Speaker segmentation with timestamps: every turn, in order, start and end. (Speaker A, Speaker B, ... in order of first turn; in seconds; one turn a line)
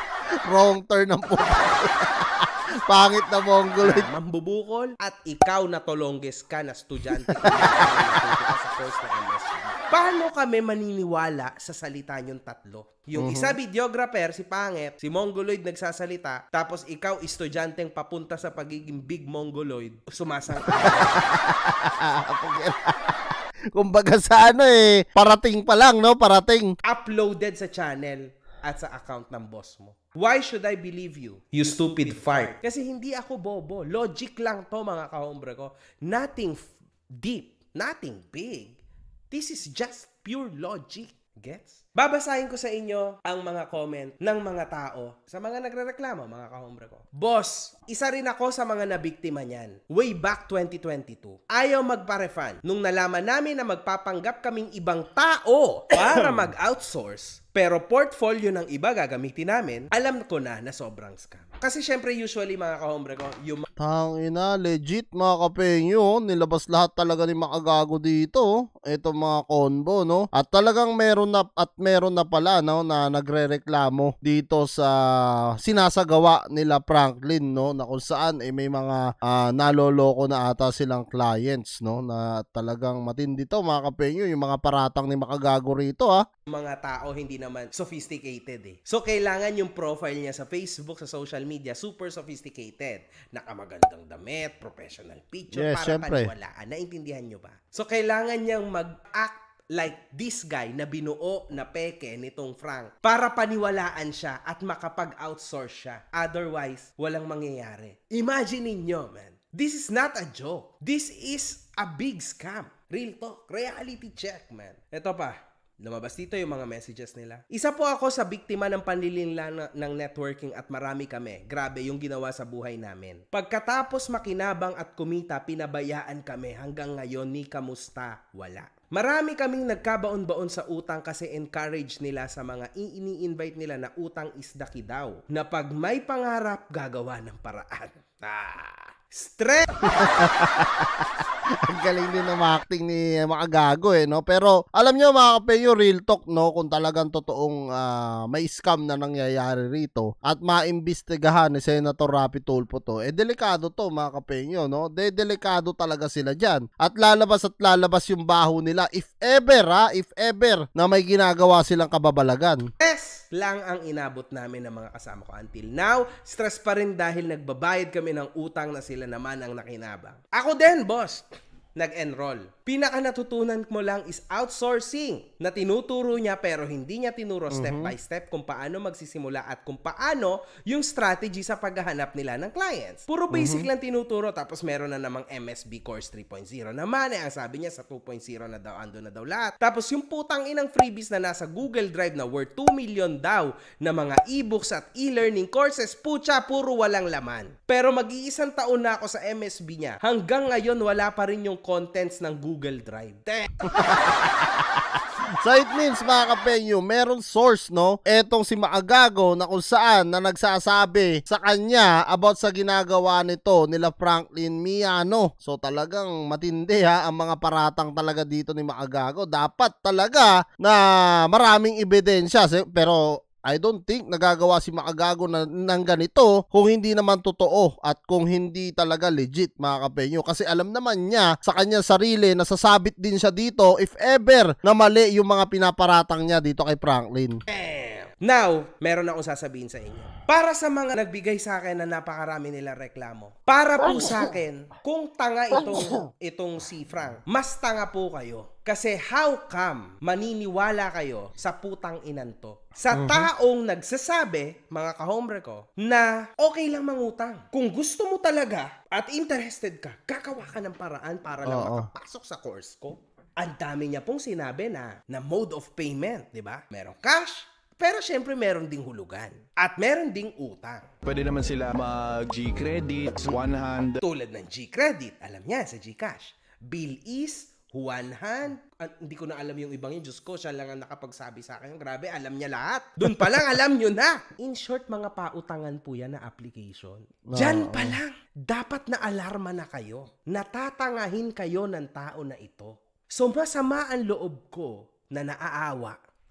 Speaker A: 0.5-4.1
Speaker B: 3.8-21.4
Speaker A: 7.1-8.4
Speaker A: 13.1-13.6
Speaker A: 20.6-23.2
Speaker A: 23.7-26.7
Speaker B: 26.8-38.8
Speaker B: 39.3-63.7
Speaker A: 56.1-56.5
Speaker A: 63.8-86.2
Speaker B: 86.5-139.7
Speaker A: 95.5-96.3
Speaker A: 139.8-141.1
Speaker A: 141.6-162.6
Speaker B: 162.8-203.6
Speaker A: 177.5-177.9
Speaker A: 183.3-183.7
Speaker A: 203.7-237.4
Speaker B: 237.5-270.9
Speaker A: 243.9-244.2
Speaker A: 252.9-253.3
Speaker A: 261.4-261.9
Speaker C: 271.0-274.0
Speaker B: 274.0-296.0
Speaker A: 287.3-288.0